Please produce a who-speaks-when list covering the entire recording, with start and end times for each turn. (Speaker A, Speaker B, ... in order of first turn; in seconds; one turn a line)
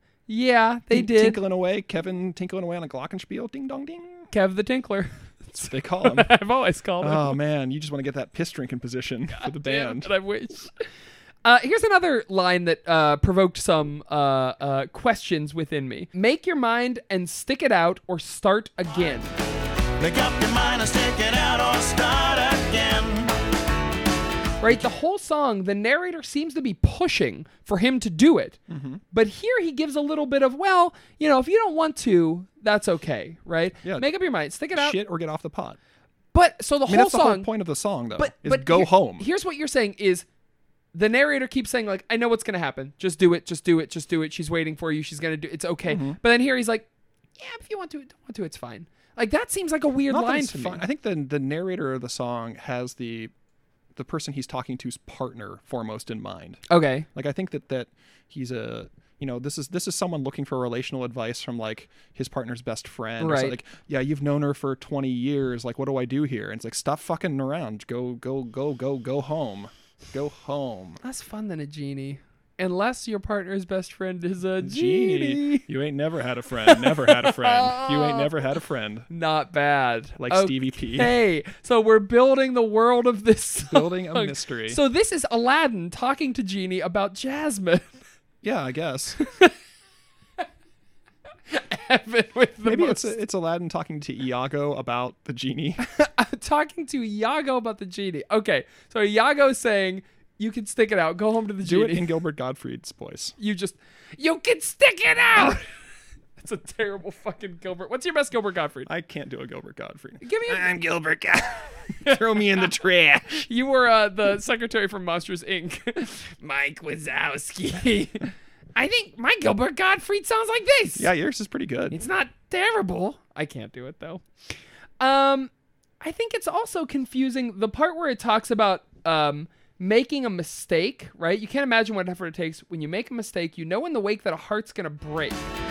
Speaker A: 0.3-1.4
Speaker B: 0.9-4.3
Speaker A: 4.3-7.4
Speaker B: 5.6-6.3
Speaker B: 7.0-10.1
Speaker A: 9.3-10.8
Speaker A: 11.4-19.3
Speaker C: 20.0-23.3
Speaker A: 24.6-28.6
Speaker B: 28.7-29.0
Speaker A: 29.1-35.0
Speaker B: 34.7-35.8
Speaker A: 36.3-37.5
Speaker B: 36.9-39.2
Speaker A: 38.2-40.3
Speaker A: 40.9-46.9
Speaker B: 45.9-46.2
Speaker A: 47.4-50.8
Speaker B: 50.1-53.3
Speaker B: 53.9-56.6
Speaker A: 56.7-57.1
Speaker B: 57.1-71.0
Speaker A: 63.2-63.6
Speaker A: 71.0-75.6
Speaker B: 74.6-79.1
Speaker A: 76.6-78.3
Speaker A: 79.1-88.0
Speaker B: 80.2-81.1
Speaker B: 83.6-84.8
Speaker B: 88.4-89.2
Speaker A: 89.2-89.5
Speaker A: 91.5-93.1
Speaker B: 92.6-95.8
Speaker A: 95.8-102.1
Speaker B: 101.6-103.3
Speaker A: 103.4-105.7
Speaker A: 106.4-108.9
Speaker B: 108.8-113.5
Speaker A: 110.2-110.7
Speaker A: 112.0-112.4
Speaker A: 113.4-121.1
Speaker B: 121.0-122.0
Speaker A: 121.9-124.2
Speaker A: 125.0-135.4